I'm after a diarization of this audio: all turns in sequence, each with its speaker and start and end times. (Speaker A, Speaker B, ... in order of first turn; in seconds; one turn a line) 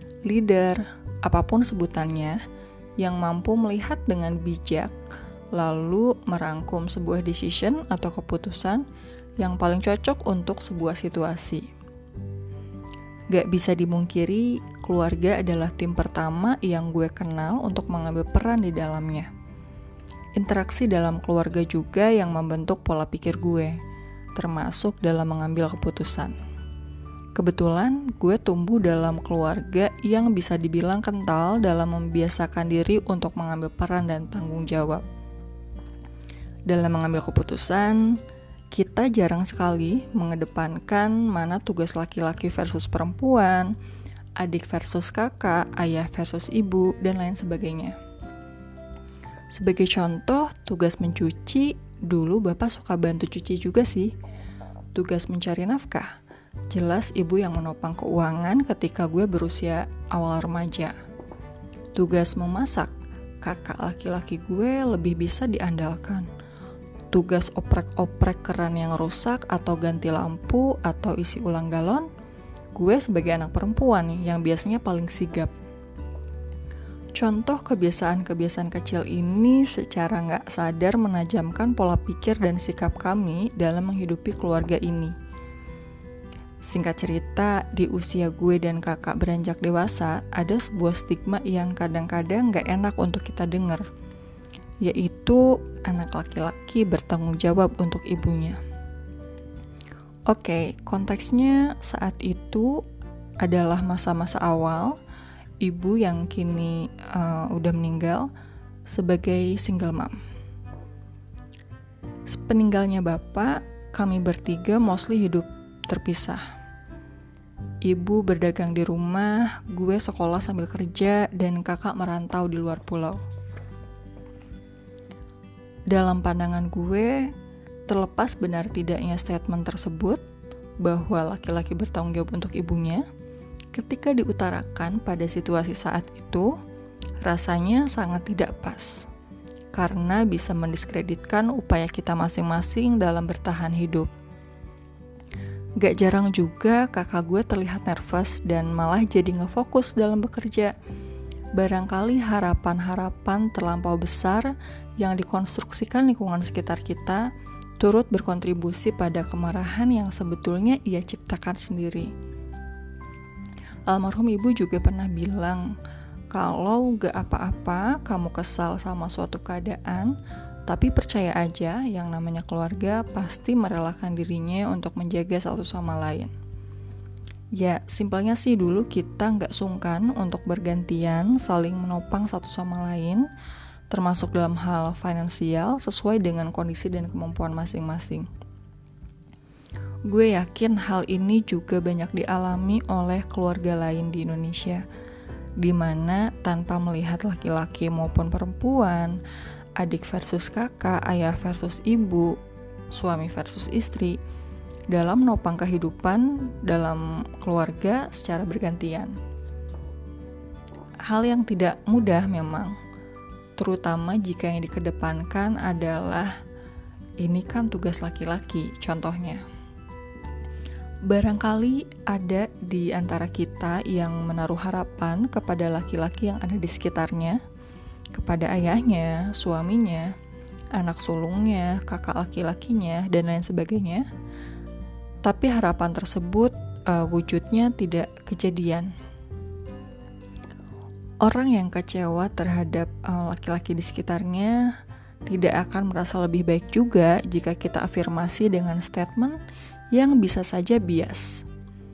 Speaker A: 0.2-2.4
Speaker A: 3.0-5.0
Speaker A: 5.5-8.8
Speaker A: 9.4-11.7
Speaker A: 13.3-19.3
Speaker A: 20.4-23.8
Speaker A: 24.3-26.4
Speaker A: 27.4-35.0
Speaker A: 36.7-38.2
Speaker A: 38.7-43.8
Speaker A: 44.4-48.0
Speaker A: 49.5-54.1
Speaker A: 54.9-56.1
Speaker A: 56.7-60.9
Speaker A: 61.9-66.3
Speaker A: 67.1-72.1
Speaker A: 72.7-75.5
Speaker A: 77.2-85.1
Speaker A: 86.6-93.8
Speaker A: 94.8-98.6
Speaker A: 100.3-102.8
Speaker A: 103.4-105.0
Speaker A: 105.6-108.3
Speaker A: 108.9-110.2
Speaker A: 112.3-116.4
Speaker A: 117.8-123.2
Speaker A: 125.9-127.3
Speaker A: 127.9-130.2
Speaker A: 130.8-133.1
Speaker A: 133.7-136.5
Speaker A: 137.2-139.1
Speaker A: 139.7-144.1
Speaker A: 145.8-150.7
Speaker A: 151.5-157.3
Speaker A: 157.8-162.1
Speaker A: 163.9-165.7
Speaker A: 166.3-170.2
Speaker A: 170.7-176.3
Speaker A: 177.5-183.2
Speaker A: 183.9-188.3
Speaker A: 190.1-194.8
Speaker A: 195.6-199.2
Speaker A: 199.8-202.4
Speaker A: 202.9-204.2
Speaker A: 204.9-209.2
Speaker A: 211.0-212.8
Speaker A: 213.6-216.4
Speaker A: 217.2-219.4
Speaker A: 221.1-227.4
Speaker A: 228.1-230.1
Speaker A: 230.7-234.1
Speaker A: 235.2-238.9
Speaker A: 241.2-244.7
Speaker A: 245.2-249.4
Speaker A: 249.9-251.4